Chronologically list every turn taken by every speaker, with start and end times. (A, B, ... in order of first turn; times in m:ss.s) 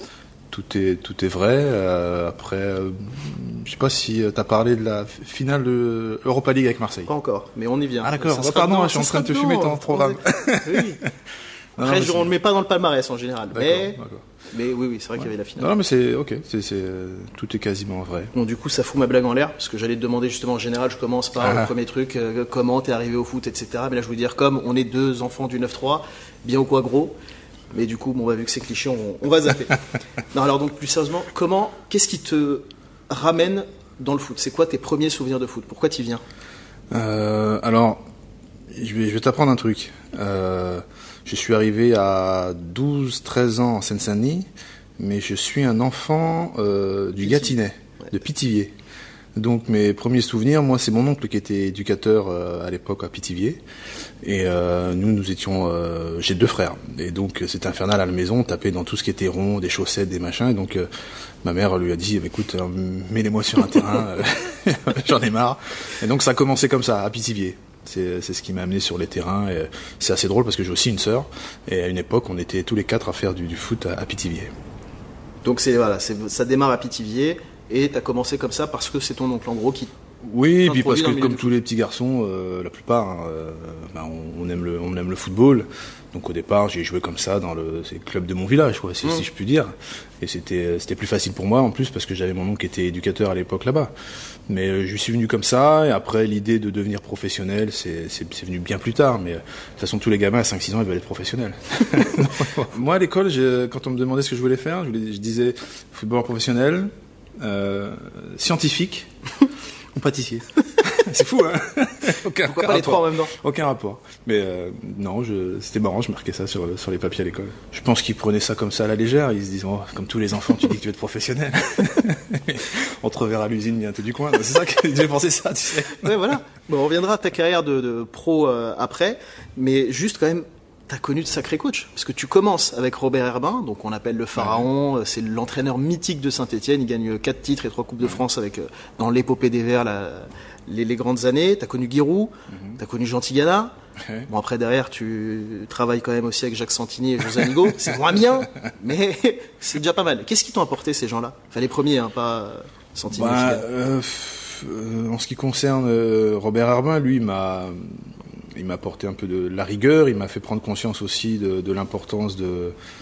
0:00.5-0:07.1 A
0:07.1-0:11.0 B
0:08.0-0:11.0 A
0:11.8-0:12.3 A
0:11.8-0:14.0 B
0:13.5-0:14.2 A
0:14.5-0:15.7 B
0:15.6-0:18.3 A
0:18.3-0:27.1 B
0:21.4-0:21.7 A
0:27.7-0:29.8 B
0:30.3-0:36.2 B
0:36.9-0:38.0 A
0:38.7-0:44.5 A
0:45.0-0:48.7 A
0:47.2-0:47.5 B
0:49.3-0:53.6 A
0:54.2-1:00.9 A
1:01.4-1:14.5 A
1:15.4-1:19.9 B
1:20.2-1:33.9 A
1:20.6-1:21.5 B
1:34.5-1:49.1 A
1:49.9-2:06.3 A
1:52.4-1:53.3 B
2:06.0-2:23.7 B
2:14.4-2:14.7 A
2:22.5-2:22.8 A
2:24.3-2:33.6 B
2:33.1-2:37.8 A
2:38.5-2:42.7 A